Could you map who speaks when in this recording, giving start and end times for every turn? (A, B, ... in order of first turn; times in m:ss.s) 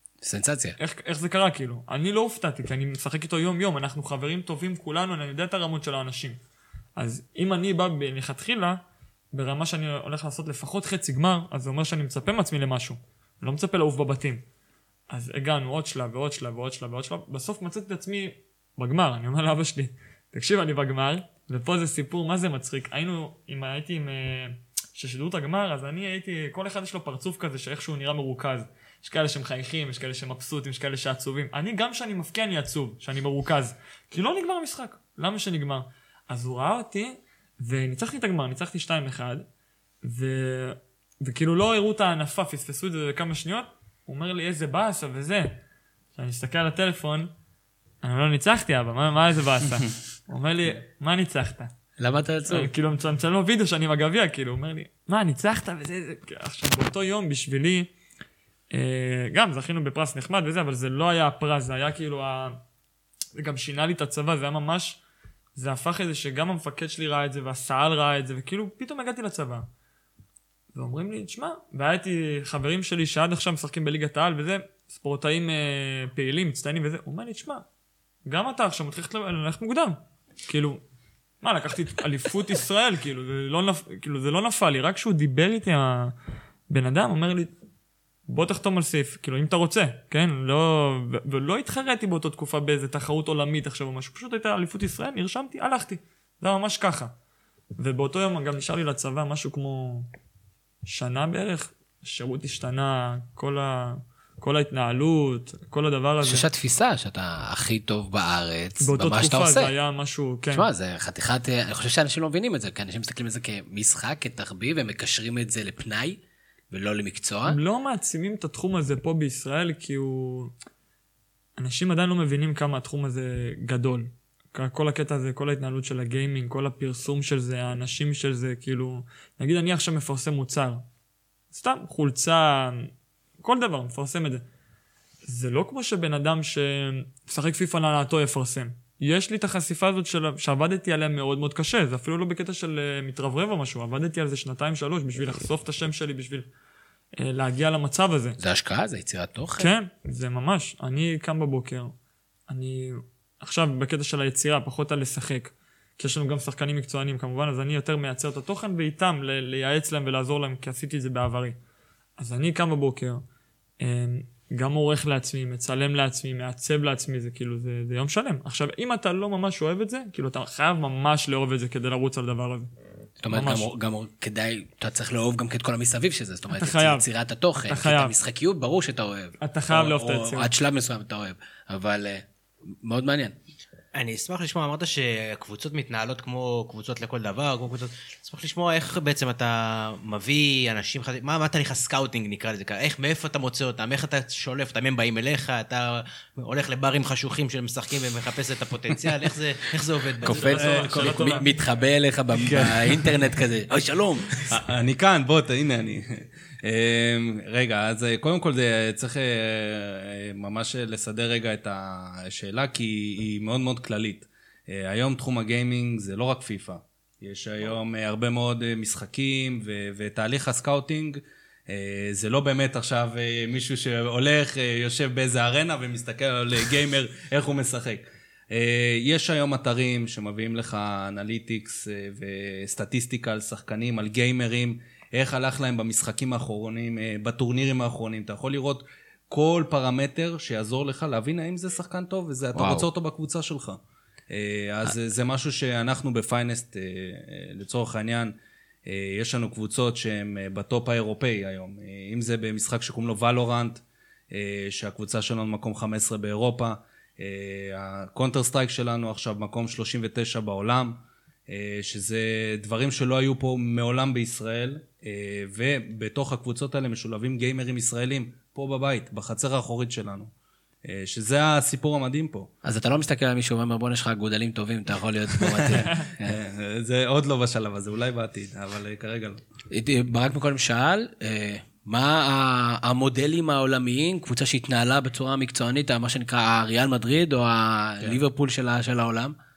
0:00.2-0:00.8 A
0:00.8-0:06.4 B
0:07.0-0:08.8 B
0:09.3-0:14.4 B
0:15.1-0:39.4 B
0:40.0-0:45.6 B
0:46.2-0:47.3 B
0:48.0-0:51.7 B
0:52.0-0:52.7 A
0:52.5-0:57.9 B
0:58.7-1:02.6 B
1:03.4-1:05.0 B
1:05.6-1:09.7 B
1:10.7-1:17.6 B
1:18.3-1:20.8 B
1:21.4-1:26.1 B
1:26.7-1:27.5 B
1:28.3-1:37.1 B
1:37.8-1:40.1 B
1:40.9-1:46.5 B
1:46.2-1:49.7 A
1:48.8-1:50.7 B
1:50.5-1:56.2 A
1:56.7-1:57.6 A
1:57.5-2:00.5 B
2:01.6-2:10.8 B
2:11.5-2:12.9 B
2:13.4-2:14.4 B
2:15.3-2:26.5 B
2:27.2-2:28.4 B
2:28.4-2:29.7 A
2:29.6-2:31.9 B
2:32.5-2:41.6 B
2:42.2-2:43.2 B
2:43.8-2:52.7 B
2:53.2-3:02.2 A
2:53.3-2:53.7 B
2:56.5-2:57.1 B
2:57.6-2:58.2 B
2:59.4-3:00.5 B
3:02.8-3:03.4 A
3:03.9-3:20.6 C
3:20.2-3:24.5 A
3:20.2-3:21.5 B
3:20.6-3:21.3 D
3:22.3-3:23.2 D
3:24.5-4:08.4 D
4:02.6-4:02.9 A
4:08.9-4:30.3 D
4:30.8-4:32.5 D
4:32.6-4:36.4 A
4:35.3-4:39.4 D
4:39.7-4:49.4 A